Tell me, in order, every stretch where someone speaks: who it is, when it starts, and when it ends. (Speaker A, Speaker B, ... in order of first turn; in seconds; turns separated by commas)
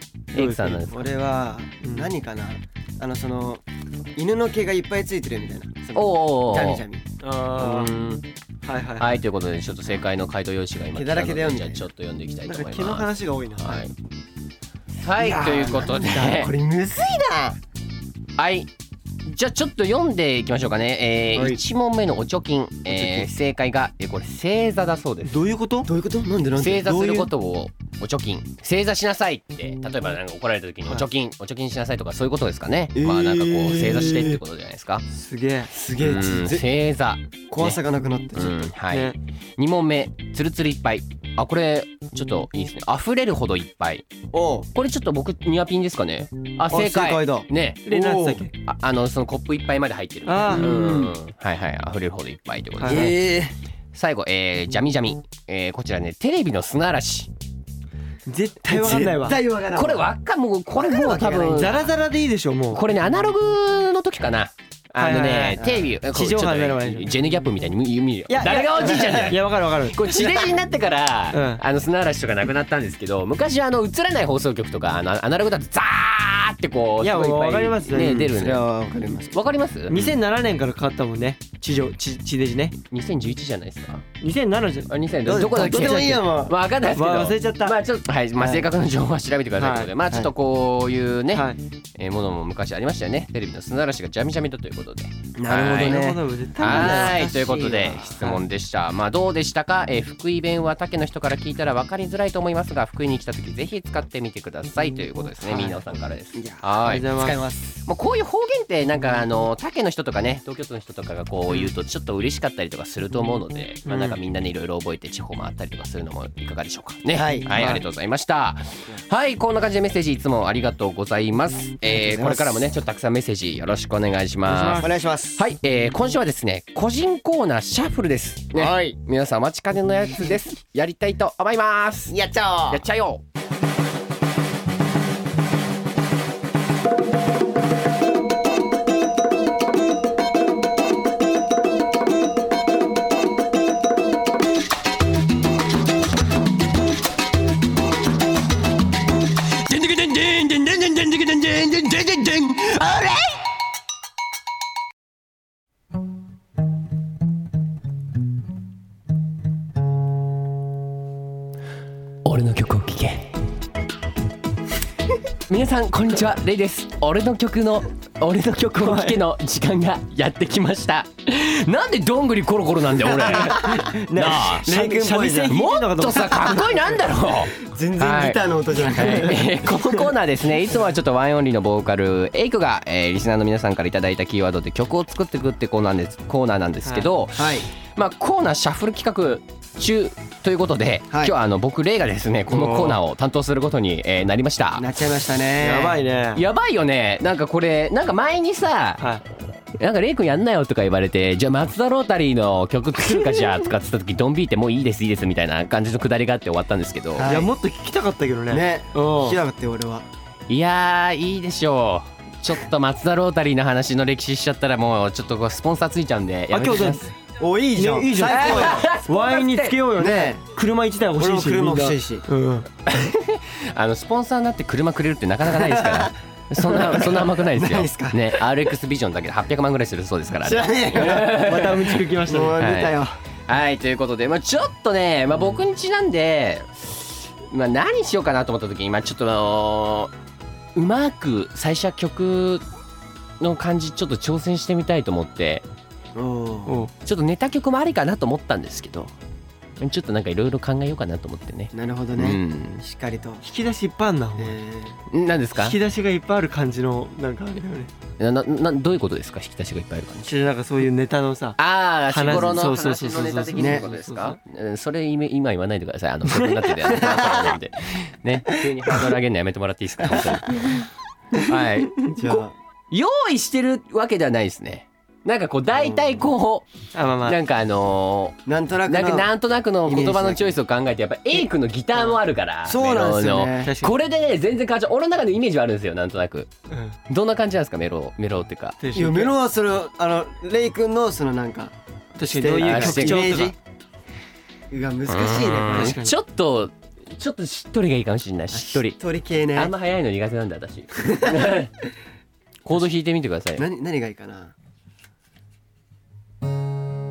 Speaker A: 0.3-0.8, Speaker B: 0.3-1.1, Speaker C: 0.8-3.6, Speaker A: 1.8-2.1, Speaker C: 4.2-7.0, Speaker B: 5.9-6.8, Speaker A: 7.2-7.9, Speaker B: 7.5-8.3, Speaker A: 8.6-9.2, Speaker B: 9.0-13.9, Speaker C: 10.9-11.9, Speaker A: 12.4-13.8, Speaker B: 15.0-16.5, Speaker C: 15.2-17.6, Speaker B: 18.4-18.7, Speaker B: 19.2-25.4, Speaker C: 21.3-21.6, Speaker A: 25.2-25.9, Speaker C: 25.9-27.3, Speaker B: 26.6-35.0, Speaker C: 33.0-34.4, Speaker A: 35.1-35.7, Speaker C: 35.7-36.6, Speaker B: 36.0-37.8, Speaker C: 37.5-38.7, Speaker B: 38.3-44.0, Speaker A: 38.9-39.1, Speaker C: 44.3-44.7, Speaker B: 44.7-48.0, Speaker C: 46.7-48.4, Speaker A: 47.9-48.5, Speaker B: 48.5-53.2, Speaker A: 50.2-50.7, Speaker C: 50.5-51.2, Speaker A: 52.8-53.1, Speaker C: 52.9-53.5, Speaker B: 53.9-57.3, Speaker A: 58.3-59.4, Speaker C: 58.7-60.1, Speaker B: 59.7-61.9, Speaker C: 60.7-61.9, Speaker A: 61.5-62.8, Speaker B: 62.7-78.7, Speaker A: 65.0-67.1, Speaker C: 65.5-65.9, Speaker A: 68.3-70.4, Speaker C: 68.8-69.3, Speaker A: 71.3-71.6, Speaker A: 77.0-78.3, Speaker C: 77.9-79.4, Speaker B: 79.3-80.0, Speaker A: 79.9-82.8, Speaker B: 82.9-84.0, Speaker A: 84.2-86.3, Speaker B: 84.9-132.2, Speaker C: 85.2-86.6, Speaker A: 86.9-87.8, Speaker C: 88.4-88.7, Speaker A: 89.6-89.9, Speaker A: 91.3-91.6, Speaker C: 95.3-98.2, Speaker A: 95.8-97.3, Speaker C: 105.5-105.8, Speaker C: 106.3-107.8, Speaker A: 106.8-107.4, Speaker A: 113.9-114.1, Speaker C: 117.1-117.8, Speaker A: 117.5-117.8, Speaker C: 121.9-122.7, Speaker A: 124.5-124.9, Speaker C: 124.7-125.4, Speaker C: 128.5-129.0, Speaker C: 132.1-132.8, Speaker B: 132.7-133.2, Speaker B: 149.7-153.3, Speaker B: 162.2-163.4, Speaker B: 165.5-174.7, Speaker A: 168.8-169.2, Speaker C: 173.1-173.8, Speaker A: 173.6-176.6, Speaker C: 174.4-175.6, Speaker B: 175.5-194.9, Speaker C: 177.6-179.9, Speaker C: 187.3-187.7, Speaker A: 192.5-193.0, Speaker C: 194.8-196.0, Speaker A: 195.6-196.4, Speaker B: 196.3-199.0, Speaker B: 199.8-207.3, Speaker C: 207.1-207.5, Speaker A: 207.2-209.4, Speaker C: 208.5-210.1, Speaker B: 210.5-217.1, Speaker A: 216.5-217.1, Speaker C: 217.4-218.9, Speaker A: 217.7-222.7, Speaker B: 218.2-219.8, Speaker C: 219.9-220.4, Speaker C: 221.2-222.2, Speaker B: 222.8-232.1, Speaker C: 225.4-228.5, Speaker C: 230.4-231.6, Speaker A: 231.3-232.6, Speaker C: 232.2-233.2, Speaker B: 232.6-240.1, Speaker B: 240.7-242.6, Speaker B: 243.4-245.7, Speaker C: 246.1-246.8, Speaker A: 246.7-246.9, Speaker B: 247.0-249.1, Speaker B: 249.8-252.8, Speaker C: 251.7-253.4, Speaker A: 253.4-254.6, Speaker C: 254.4-255.0, Speaker B: 255.1-255.8, Speaker A: 255.6-257.9, Speaker B: 258.2-260.3, Speaker A: 260.2-261.6, Speaker B: 261.6-272.4, Speaker A: 262.1-264.4, Speaker C: 263.6-263.9, Speaker C: 266.9-267.5, Speaker C: 272.0-272.6, Speaker B: 272.9-276.7, Speaker A: 276.9-277.4, Speaker B: 277.2-286.5, Speaker C: 278.4-279.3, Speaker C: 279.8-280.6, Speaker C: 281.9-283.7, Speaker A: 283.6-283.9, Speaker A: 286.7-286.9, Speaker B: 287.1-288.8, Speaker A: 288.8-289.3, Speaker C: 288.9-293.6, Speaker A: 292.2-293.5, Speaker B: 292.6-293.5, Speaker C: 294.7-296.0, Speaker B: 295.1-299.0, Speaker A: 295.7-296.1, Speaker C: 298.5-299.7, Speaker B: 299.5-301.8, Speaker C: 301.2-301.5, Speaker B: 302.6-303.6, Speaker C: 303.6-304.5